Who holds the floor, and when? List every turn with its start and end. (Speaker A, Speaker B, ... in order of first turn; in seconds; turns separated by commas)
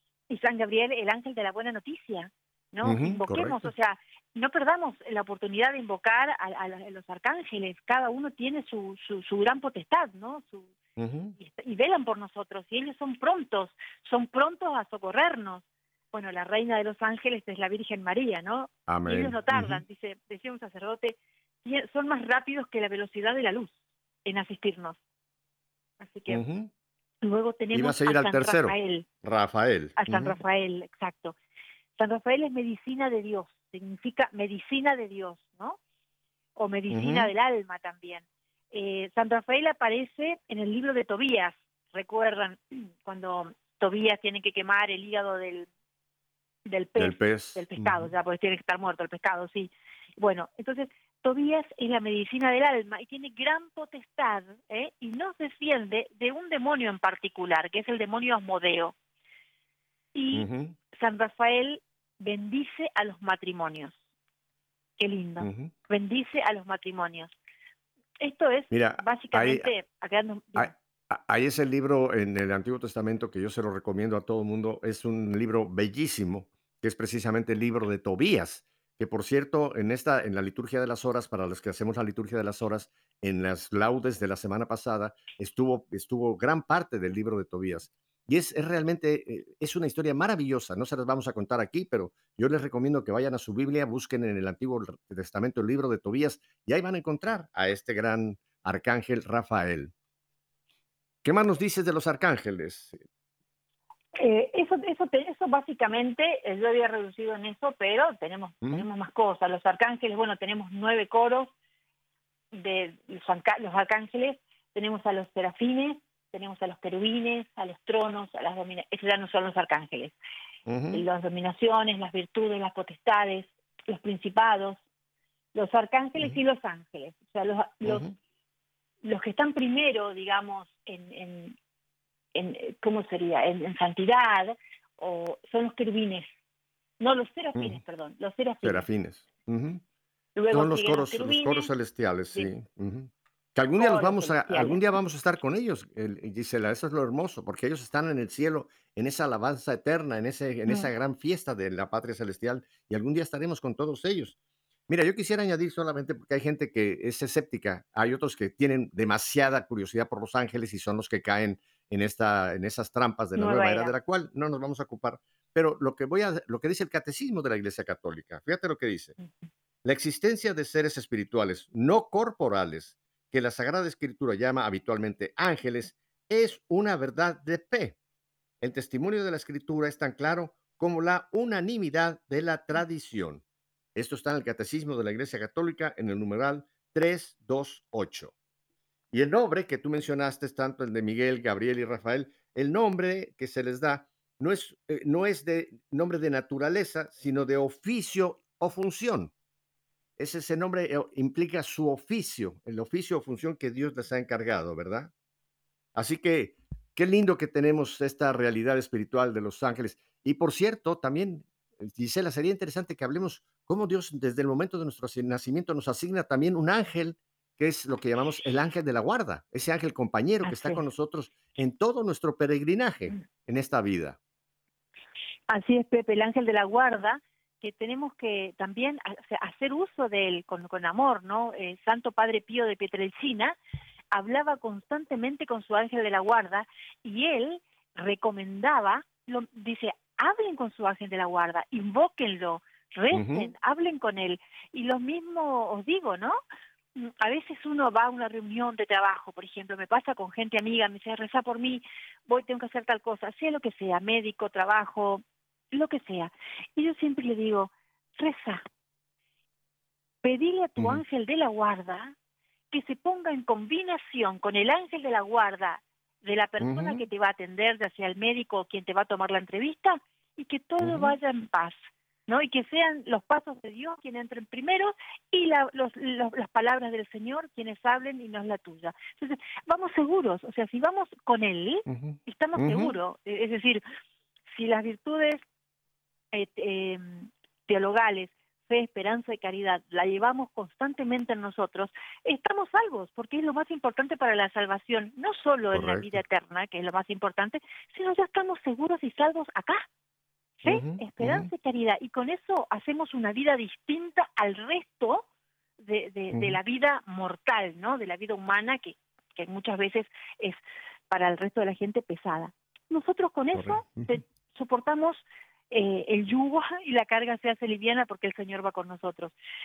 Speaker A: 0.3-10.7, Speaker B: 2.8-3.7, Speaker B: 11.0-11.3, Speaker A: 11.4-23.7, Speaker B: 18.9-19.8, Speaker A: 24.2-25.0, Speaker A: 26.0-26.4, Speaker B: 26.3-26.7, Speaker A: 27.2-29.1, Speaker B: 27.7-30.4, Speaker A: 30.0-31.4, Speaker A: 32.0-35.8, Speaker A: 36.5-45.7, Speaker B: 36.9-37.3, Speaker A: 46.6-58.9, Speaker B: 47.0-48.1, Speaker A: 60.1-64.0, Speaker B: 60.3-60.8, Speaker A: 65.0-67.3, Speaker B: 65.4-65.7, Speaker A: 68.2-70.7, Speaker B: 68.7-69.7, Speaker B: 70.5-99.9, Speaker B: 101.2-103.0, Speaker A: 104.2-111.5, Speaker A: 112.5-120.1, Speaker B: 120.7-121.0, Speaker A: 120.9-124.8, Speaker A: 125.5-128.1, Speaker B: 127.8-128.1, Speaker A: 129.0-131.6, Speaker A: 132.3-136.3, Speaker A: 137.0-138.8, Speaker B: 137.5-137.8, Speaker B: 138.6-139.8, Speaker A: 140.3-141.7, Speaker B: 140.5-154.3, Speaker A: 143.8-144.8, Speaker B: 154.9-169.2, Speaker A: 163.3-163.9, Speaker B: 169.8-178.0, Speaker B: 178.6-183.4, Speaker B: 183.9-188.3, Speaker B: 189.1-199.3, Speaker B: 200.2-205.1, Speaker B: 205.9-224.2, Speaker A: 220.4-220.8, Speaker A: 225.5-233.6, Speaker A: 234.1-246.4, Speaker B: 243.1-243.5, Speaker A: 246.9-258.6, Speaker A: 260.2-262.1, Speaker A: 262.7-283.8, Speaker B: 266.6-267.0, Speaker B: 270.8-271.1, Speaker B: 281.9-282.9, Speaker A: 284.5-285.4, Speaker A: 286.3-299.8, Speaker B: 295.7-296.2, Speaker A: 300.6-305.2, Speaker B: 300.6-301.5, Speaker A: 305.8-319.3, Speaker B: 306.3-306.6, Speaker B: 313.5-314.1